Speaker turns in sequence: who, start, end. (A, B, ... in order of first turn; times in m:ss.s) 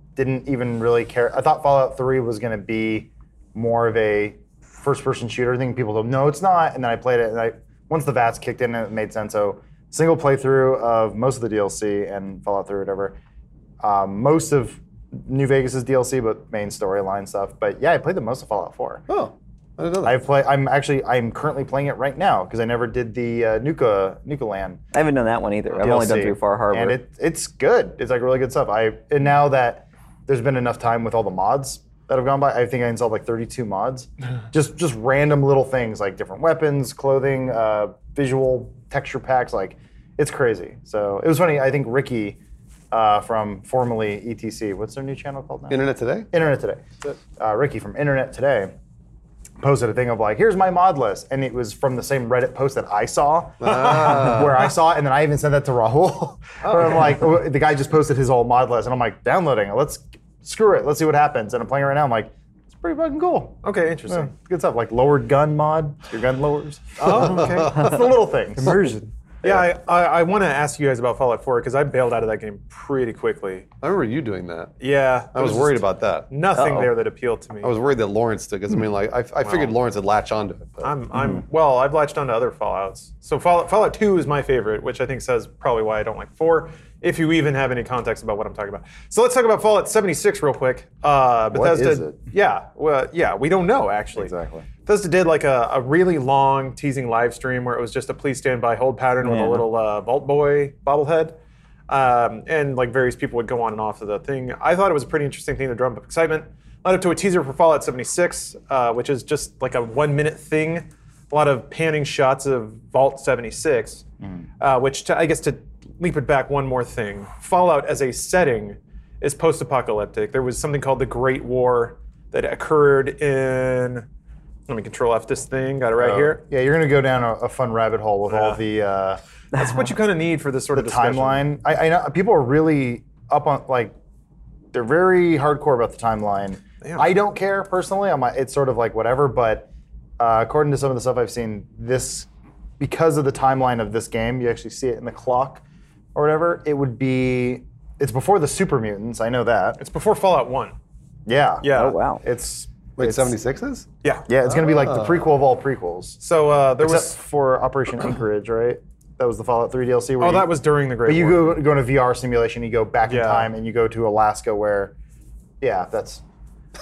0:00.2-0:13.2 A
0:13.8-0:19.0 A
0:19.1-0:20.2 B
0:20.0-0:24.8 A
0:24.9-0:27.0 C
0:25.8-0:42.4 A
0:42.9-0:45.8 A
0:45.7-0:46.3 B
0:46.3-0:48.7 A
0:49.6-1:09.0 A
0:53.6-0:54.5 B
0:56.6-0:57.1 D
1:03.6-1:04.3 D
1:07.0-1:08.0 D
1:08.6-1:09.1 C
1:09.4-1:13.7 D
1:13.8-1:14.7 B
1:14.8-1:17.8 D
1:15.3-1:16.3 B
1:16.6-1:16.9 C
1:17.6-1:20.9 B
1:19.4-1:19.8 D
1:20.8-1:34.3 D
1:31.5-1:32.2 A
1:34.2-1:34.7 A
1:34.9-1:41.4 D
1:39.2-1:39.7 C
1:41.9-1:54.0 D
1:54.6-2:04.1 D
2:04.7-2:06.4 D
2:06.0-2:09.2 A
2:08.3-2:08.6 D
2:09.5-2:11.5 D
2:10.7-2:13.9 A
2:14.7-2:19.7 A
2:16.8-2:17.1 D
2:20.2-2:25.6 A
2:26.2-2:29.8 A
2:29.8-2:30.8 D
2:31.3-2:31.7 A
2:31.6-2:32.0 D
2:31.7-2:32.2 C
2:32.2-2:33.4 A
2:33.0-2:33.9 B
2:34.3-2:36.2 A
2:34.5-2:35.3 B
2:36.2-2:37.2 D
2:36.8-2:44.9 A
2:40.2-2:41.6 D
2:43.1-2:43.5 D
2:45.6-2:46.2 A